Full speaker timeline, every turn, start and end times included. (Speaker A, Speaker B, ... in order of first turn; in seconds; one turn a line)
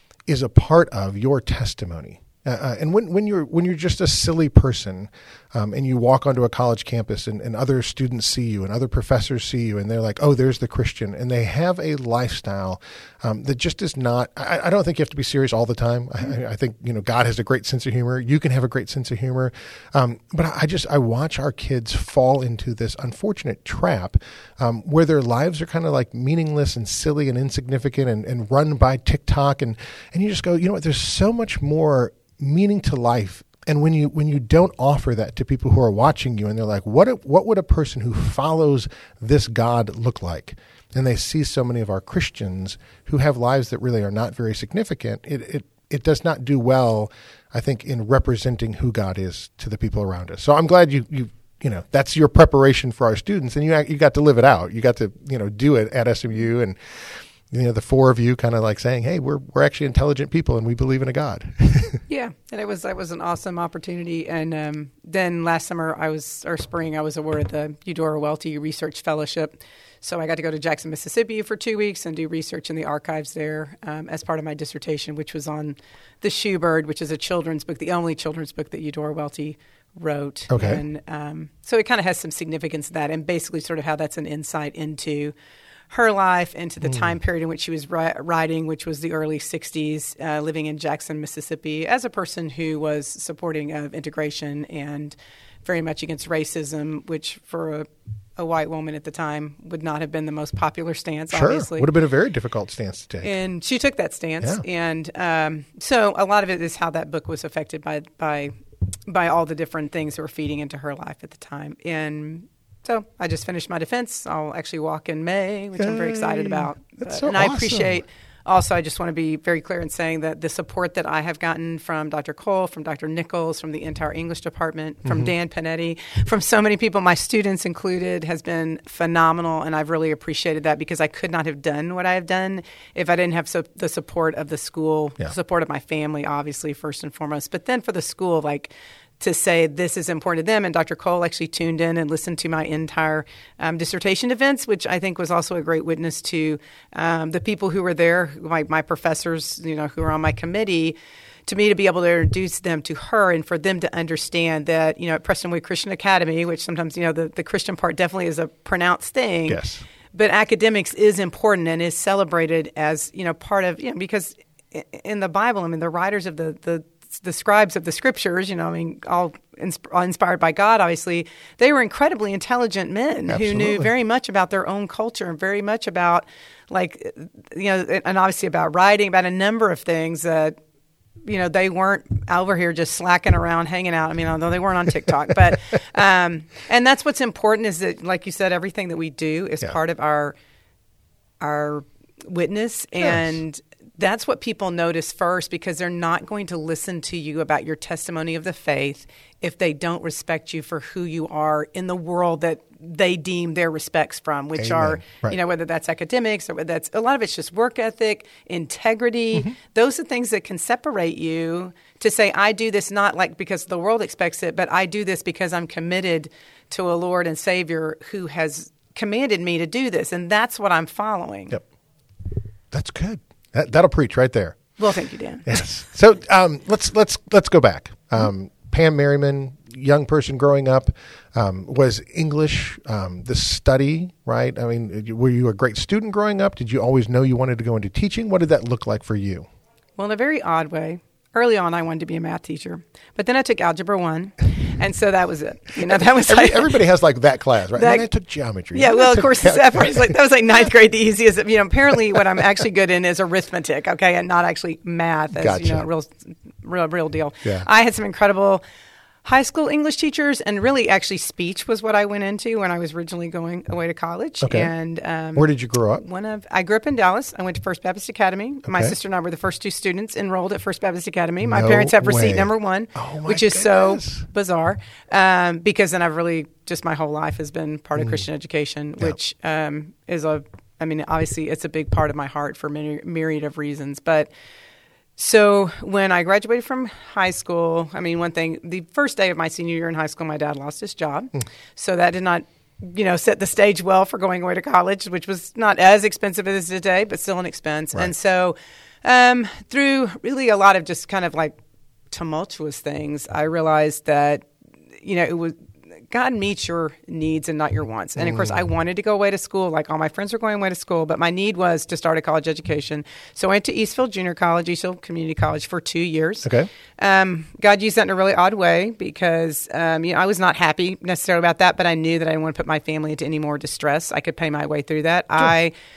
Speaker A: 0.3-62.0
Speaker B: 62.1-85.3
Speaker A: 80.5-80.8
Speaker B: 85.9-101.9
Speaker A: 86.8-87.2
Speaker A: 101.3-103.3
Speaker B: 103.2-108.5
Speaker B: 109.1-150.9
Speaker A: 115.8-118.0
Speaker A: 125.0-125.3
Speaker B: 151.5-159.6
Speaker A: 159.5-159.8
Speaker B: 160.1-180.6
Speaker A: 173.3-173.9
Speaker B: 181.2-190.3
Speaker B: 191.4-221.6
Speaker A: 193.0-193.4
Speaker A: 204.6-205.4
Speaker A: 222.7-224.8
Speaker B: 224.8-225.5
Speaker A: 225.4-239.5
Speaker B: 240.0-246.8
Speaker A: 245.9-250.1
Speaker B: 247.8-248.1
Speaker B: 248.7-258.6
Speaker A: 255.3-255.8
Speaker B: 259.2-284.3
Speaker A: 264.4-264.7
Speaker A: 265.3-266.0
Speaker A: 268.6-268.9
Speaker A: 271.4-274.2
Speaker A: 278.0-278.2
Speaker B: 285.2-301.6
Speaker B: 302.1-304.5
Speaker B: 305.0-305.6
Speaker B: 306.1-325.7
Speaker A: 308.2-308.6
Speaker A: 316.4-316.7